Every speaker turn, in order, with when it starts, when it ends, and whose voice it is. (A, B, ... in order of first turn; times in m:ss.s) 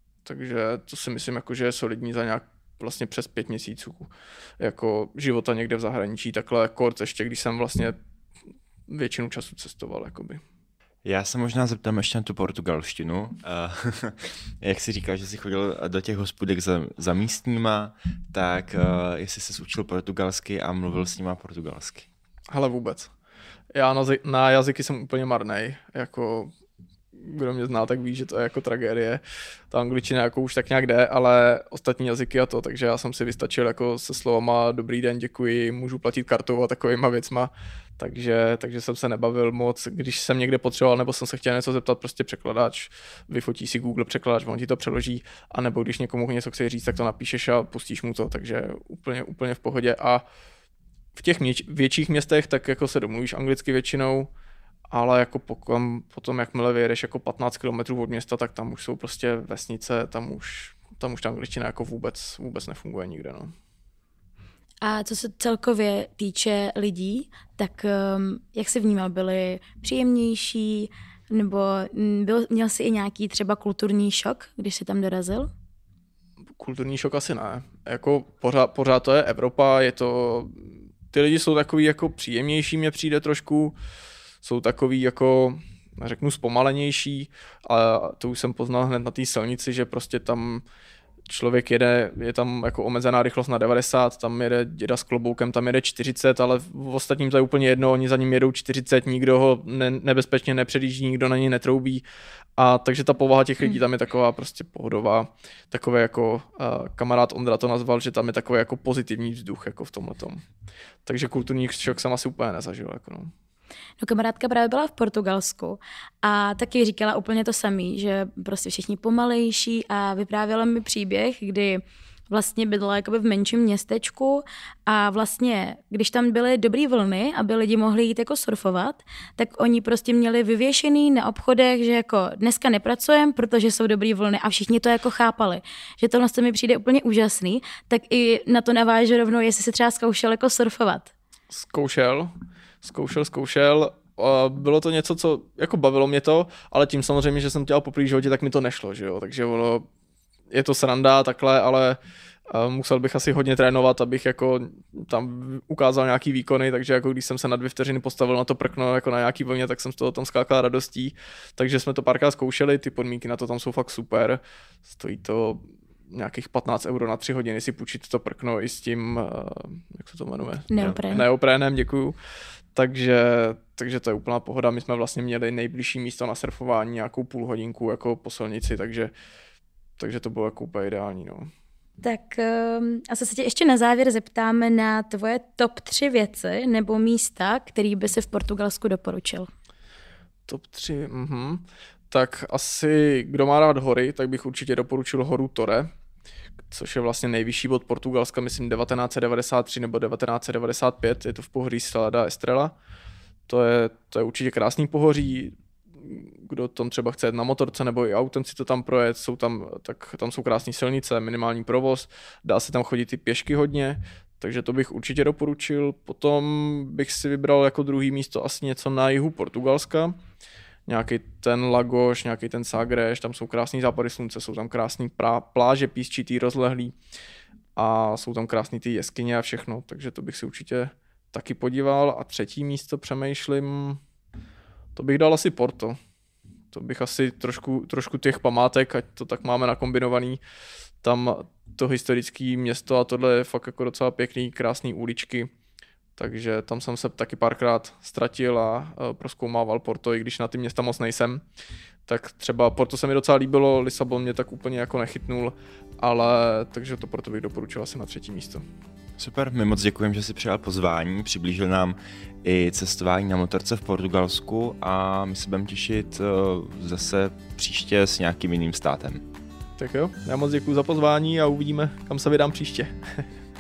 0:00.2-0:08.0 A
0:08.9-0:10.4 A
0:11.0-0:22.1 B
0:22.5-0:23.1 A
0:23.7-0:26.5 A
0:27.1-0:50.2 A
0:51.2-0:54.3 A
0:54.9-1:03.5 A
1:04.8-1:15.5 C
1:16.6-1:23.8 A
1:24.4-1:30.6 A
1:31.3-1:42.0 A
1:42.6-1:50.4 A
1:51.1-1:53.3 A
1:54.0-2:21.1 C
2:21.5-2:29.9 A
2:30.5-2:32.0 A
2:32.5-2:52.2 A
2:50.7-2:51.2 C
2:50.8-2:51.2 B
2:52.8-2:59.1 A
3:00.0-3:01.5 A
3:02.0-3:09.5 C
3:10.5-3:15.9 A
3:16.7-3:22.7 A
3:23.5-3:40.2 A
3:40.9-3:46.9 A
3:47.8-3:54.0 A
3:55.0-3:56.0 A
3:56.7-4:00.4 A
4:01.0-4:05.5 A
4:06.2-4:11.4 A
4:12.1-4:18.6 A
4:19.2-4:29.2 B
4:29.8-4:33.2 A